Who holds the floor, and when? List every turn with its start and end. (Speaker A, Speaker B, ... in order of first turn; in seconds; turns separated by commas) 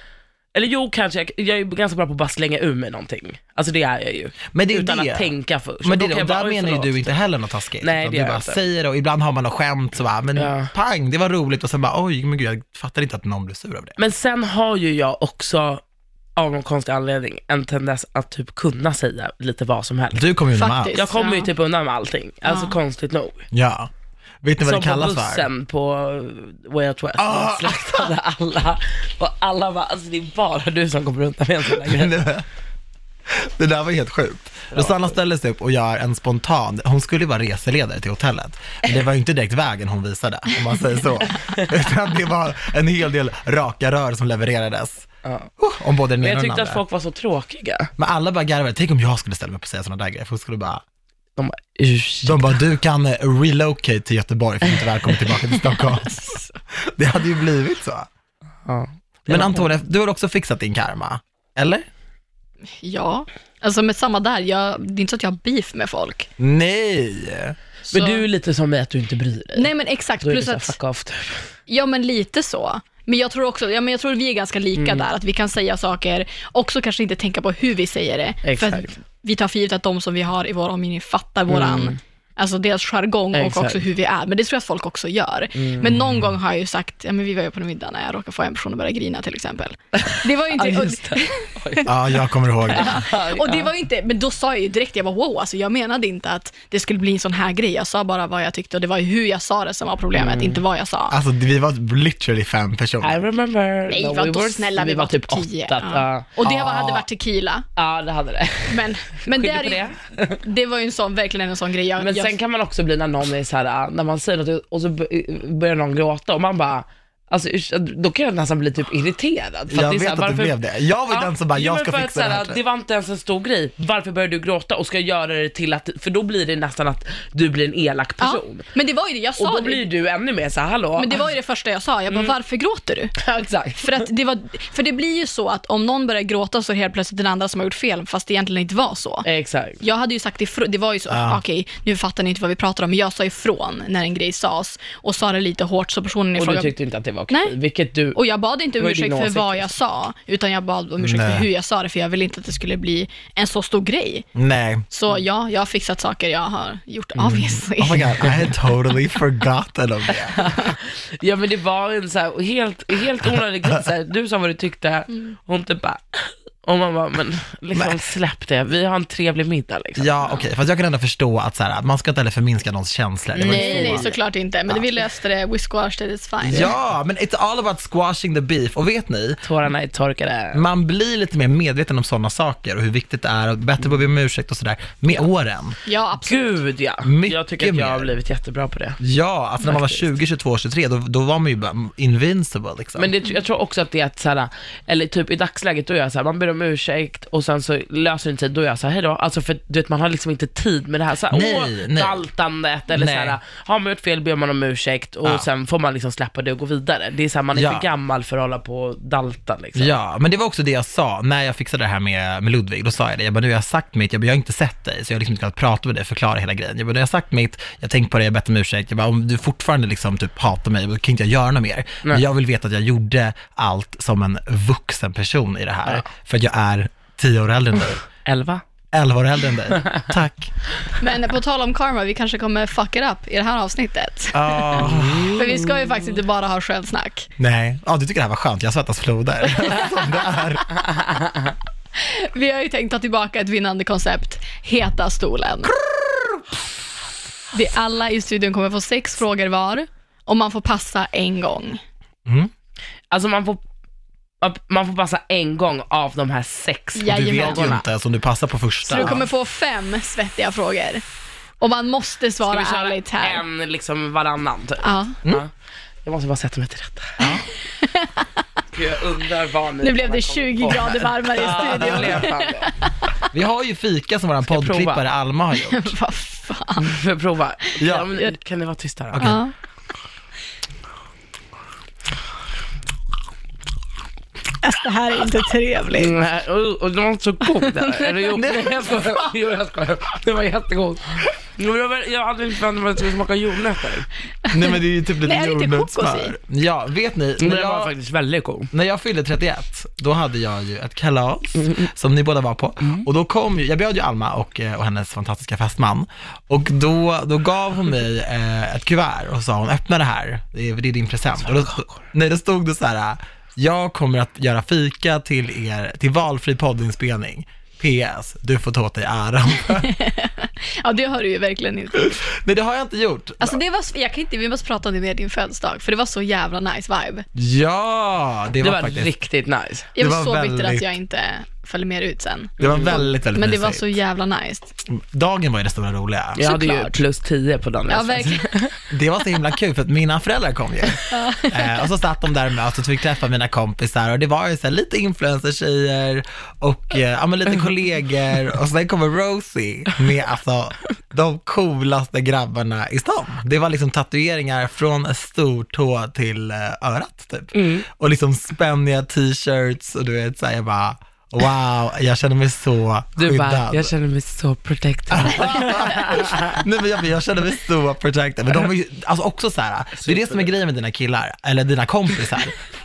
Speaker A: 0.5-7.1, Speaker B: 4.5-5.3, Speaker B: 5.8-14.0, Speaker A: 7.8-8.6, Speaker A: 10.3-10.7, Speaker A: 14.0-15.8, Speaker A: 16.4-20.2, Speaker B: 20.1-21.0, Speaker C: 20.5-21.5, Speaker A: 20.9-23.4, Speaker C: 22.4-22.8, Speaker B: 23.5-23.9, Speaker B: 24.4-25.4, Speaker A: 24.6-32.1, Speaker B: 27.2-28.1, Speaker B: 31.9-32.4, Speaker B: 33.3-45.1, Speaker A: 34.7-35.1, Speaker A: 45.2-45.5, Speaker B: 45.6-46.8, Speaker A: 46.2-47.9, Speaker B: 48.0-50.8, Speaker A: 51.4-52.6, Speaker B: 52.2-58.1, Speaker C: 56.0-56.5, Speaker A: 58.6-59.7, Speaker B: 59.3-61.9, Speaker C: 62.8-66.3, Speaker B: 66.4-67.5, Speaker C: 67.9-68.3, Speaker A: 67.9-69.7, Speaker C: 69.5-70.8, Speaker A: 70.2-71.5, Speaker C: 71.7-91.9, Speaker A: 74.7-75.0, Speaker A: 78.4-78.9, Speaker A: 81.5-82.0, Speaker A: 83.3-83.8, Speaker A: 85.5-85.9, Speaker B: 85.8-86.3, Speaker A: 89.9-91.9, Speaker B: 91.8-93.0, Speaker C: 92.7-101.1, Speaker A: 92.7-93.7, Speaker A: 100.1-100.6, Speaker B: 101.1-103.2, Speaker A: 103.0-107.0, Speaker C: 103.9-107.7, Speaker A: 107.8-110.4, Speaker C: 108.7-109.9, Speaker C: 110.4-112.4, Speaker A: 112.0-120.5, Speaker B: 119.7-122.6, Speaker A: 121.1-128.7, Speaker C: 128.2-129.9, Speaker A: 129.4-131.3, Speaker C: 130.9-133.2, Speaker A: 133.2-134.1, Speaker C: 133.8-139.3, Speaker A: 139.2-139.8, Speaker C: 139.8-146.7, Speaker B: 141.1-141.4, Speaker A: 146.3-148.2, Speaker C: 147.3-147.6, Speaker C: 148.1-154.3, Speaker A: 148.8-149.7, Speaker B: 151.0-151.4, Speaker B: 154.3-154.8, Speaker C: 154.9-158.3, Speaker B: 157.2-160.4, Speaker A: 160.3-170.3, Speaker B: 167.7-168.0, Speaker B: 170.0-174.1, Speaker A: 173.3-174.1, Speaker C: 173.4-176.7, Speaker B: 176.4-179.4, Speaker A: 179.4-180.6, Speaker B: 180.5-185.8, Speaker C: 185.8-186.6, Speaker A: 186.2-189.0, Speaker B: 187.0-188.1, Speaker B: 189.0-193.1, Speaker A: 189.6-190.0, Speaker A: 193.0-209.9, Speaker B: 201.3-202.2, Speaker B: 202.9-203.4, Speaker B: 207.5-207.8, Speaker B: 209.8-228.0, Speaker A: 228.2-228.6, Speaker B: 228.9-230.5, Speaker C: 231.0-237.3, Speaker B: 234.3-235.3, Speaker A: 234.8-235.9, Speaker B: 237.4-240.8, Speaker C: 241.9-245.7, Speaker C: 247.5-251.8, Speaker B: 252.2-252.5, Speaker A: 253.1-253.6, Speaker A: 254.4-257.8, Speaker C: 256.9-257.8, Speaker B: 257.1-259.2, Speaker C: 258.9-261.0, Speaker A: 258.9-259.2, Speaker C: 261.6-263.4, Speaker A: 262.4-265.5, Speaker C: 264.8-265.2, Speaker A: 266.0-267.2, Speaker B: 267.2-267.4, Speaker C: 267.2-268.4, Speaker A: 268.7-272.7, Speaker C: 269.8-273.0, Speaker B: 271.4-272.2, Speaker B: 273.3-275.9, Speaker A: 274.4-275.0, Speaker C: 275.6-276.9, Speaker A: 276.8-279.4, Speaker B: 277.8-278.1, Speaker B: 279.1-279.4, Speaker C: 279.2-279.5, Speaker C: 284.6-286.2, Speaker A: 285.9-294.1, Speaker C: 287.6-288.4, Speaker B: 288.3-289.2, Speaker C: 294.4-296.4, Speaker B: 294.5-297.9, Speaker A: 297.4-298.7, Speaker B: 298.7-319.9, Speaker A: 301.6-301.9, Speaker A: 311.4-312.0, Speaker C: 319.6-322.2, Speaker B: 322.0-323.6, Speaker C: 323.4-327.2, Speaker B: 327.3-329.1, Speaker A: 328.6-329.9, Speaker C: 329.9-334.8, Speaker B: 330.0-330.9, Speaker B: 332.6-334.0, Speaker A: 332.6-333.0, Speaker B: 334.9-336.4, Speaker A: 336.4-338.7, Speaker C: 336.4-337.0, Speaker C: 337.9-338.5, Speaker B: 338.9-363.9, Speaker C: 341.1-341.7, Speaker A: 357.5-357.9, Speaker A: 363.2-366.5, Speaker B: 365.1-372.5, Speaker A: 370.0-370.5